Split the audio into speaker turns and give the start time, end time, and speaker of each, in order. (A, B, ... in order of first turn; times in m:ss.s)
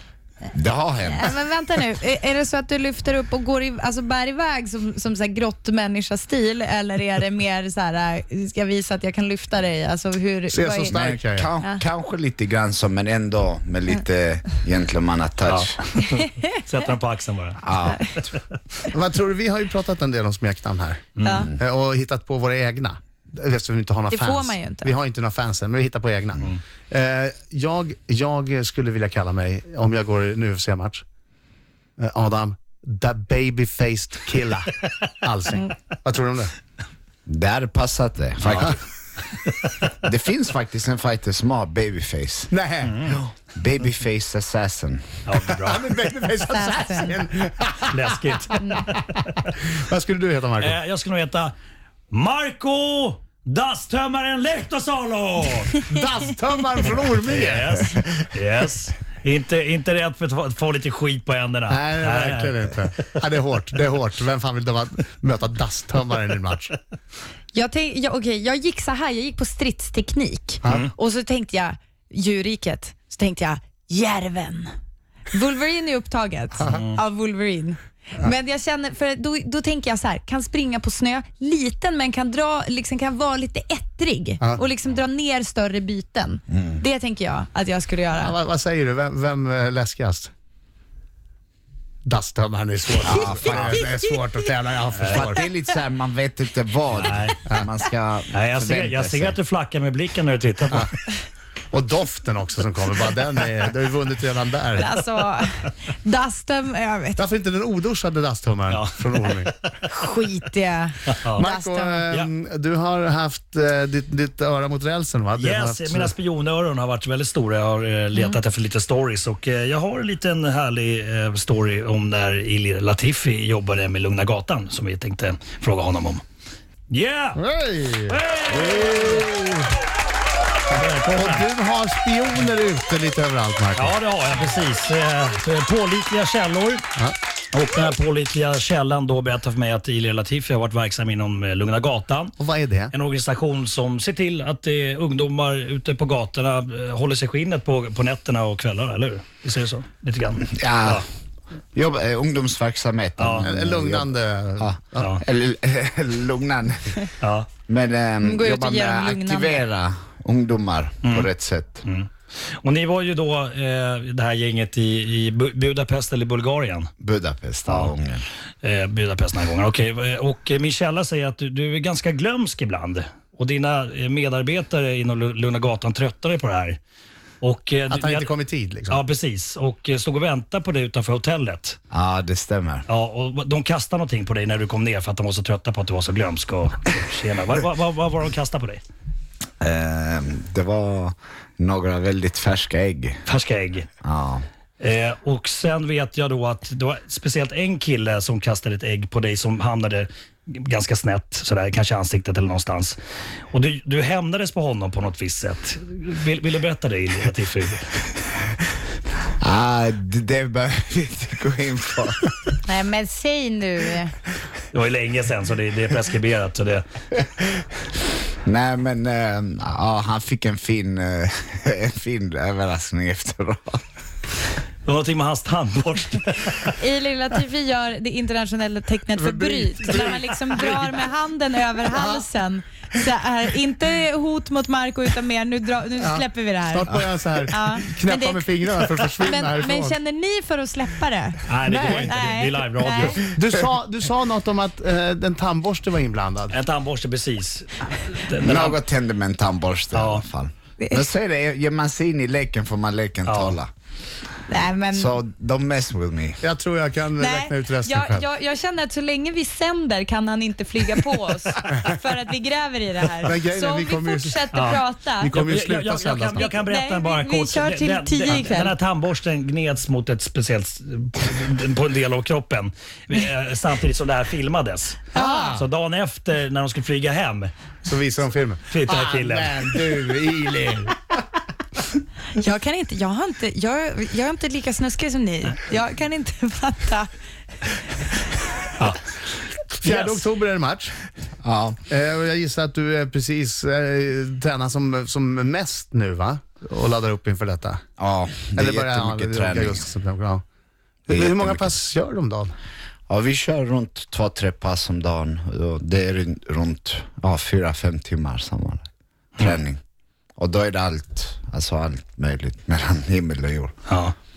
0:00.5-0:01.3 A
0:01.1-0:11.0 B
0:10.5-0:11.5 C
0:10.9-0:15.7 A
0:15.4-0:17.6 D
0:17.6-0:18.3 A
0:18.9-0:31.0 C
0:21.2-0:21.4 D
0:21.2-0:21.5 B
0:21.3-0:21.5 A
0:24.1-0:24.9 B
0:32.0-0:36.5 C
0:37.3-0:38.8 A
0:38.4-0:38.8 D
0:40.0-0:42.5 A
0:42.5-0:43.1 C
0:42.8-0:43.2 D
0:43.0-0:45.2 A
0:45.2-0:45.8 D
0:45.5-0:48.6 C
0:46.4-0:47.1 B
0:47.9-0:49.5 D
0:49.6-0:50.7 C
0:50.6-0:51.5 D
0:52.1-0:55.9 D
0:55.9-0:58.0 C
0:57.2-1:02.8 D
1:01.7-1:06.8 C
1:07.5-1:14.7 B
1:15.3-1:28.3 B
1:16.7-1:17.0 D
1:26.5-1:26.8 A
1:28.1-1:30.3 C
1:32.0-1:35.4 C
1:33.0-1:33.9 A
1:33.0-1:33.8 B
1:35.0-1:35.3 D
1:35.0-1:39.4 A
1:36.9-1:37.4 D
1:38.3-1:40.9 D
1:41.7-1:44.9 C
1:44.8-1:47.2 B
1:47.2-1:49.5 C
1:48.7-1:49.9 D
1:49.9-1:52.0 B
1:51.1-1:51.4 D
1:51.3-1:56.1 C
1:55.4-2:06.2 D
2:06.9-2:07.4 D
2:07.3-2:09.6 C
2:08.1-2:09.4 D
2:10.7-2:11.5 D
2:11.1-2:14.0 C
2:13.8-2:16.8 D
2:17.5-2:22.3 D
2:22.4-2:22.9 C
2:22.9-2:31.0 D
2:30.5-2:31.0 A
2:31.7-2:37.0 A
2:33.2-2:33.4 D
2:33.4-2:35.2 C
2:37.2-2:37.5 D
2:37.7-2:41.8 A
2:38.2-2:39.6 B
2:41.8-2:46.9 D
2:47.0-2:48.2 A
2:47.7-2:47.9 D
2:48.6-2:56.8 D
2:57.4-2:58.3 D
2:57.9-2:59.0 C
2:58.9-3:01.8 D
3:01.9-3:02.8 A
3:02.9-3:08.8 D
3:09.6-3:13.2 A
3:13.2-3:13.9 D
3:14.0-3:14.4 A
3:14.8-3:23.0 D
3:23.5-3:27.9 D
3:29.4-3:32.5 A
3:32.6-3:34.2 B
3:34.7-3:36.8 D
3:38.4-3:43.8 A
3:44.8-3:46.7 D
3:46.7-3:57.0 B
3:49.2-3:50.2 C
3:49.9-3:51.0 D
3:51.9-3:52.3 C
3:56.0-4:00.0 C
3:57.5-3:58.5 B
3:59.2-4:03.2 B
4:01.5-4:03.3 D
4:01.7-4:02.1 C
4:03.2-4:06.6 C
4:06.5-4:08.8 D
4:08.4-4:13.7 A
4:09.9-4:10.2 D
4:10.8-4:11.1 B
4:13.2-4:13.6 D
4:14.5-4:15.1 B
4:14.9-4:16.4 A
4:16.4-4:18.2 C
4:17.2-4:25.4 B
4:23.2-4:24.4 C
4:24.5-4:37.5 D
4:25.2-4:26.4 C
4:26.3-4:28.7 B
4:35.1-4:35.5 B
4:35.1-4:35.6 C
4:37.8-4:41.0 C
4:38.7-4:40.0 D
4:42.3-4:47.1 B
4:47.6-4:48.3 B
4:48.8-4:50.2 D
4:49.8-4:50.9 C
4:51.4-4:51.8 A
4:51.9-4:57.8 C
4:58.0-4:59.8 A
4:58.6-5:00.4 C
5:01.1-5:02.5 C
5:01.1-5:01.8 A
5:03.1-5:08.8 A
5:09.4-5:09.8 A
5:10.4-5:13.7 A
5:13.9-5:14.1 D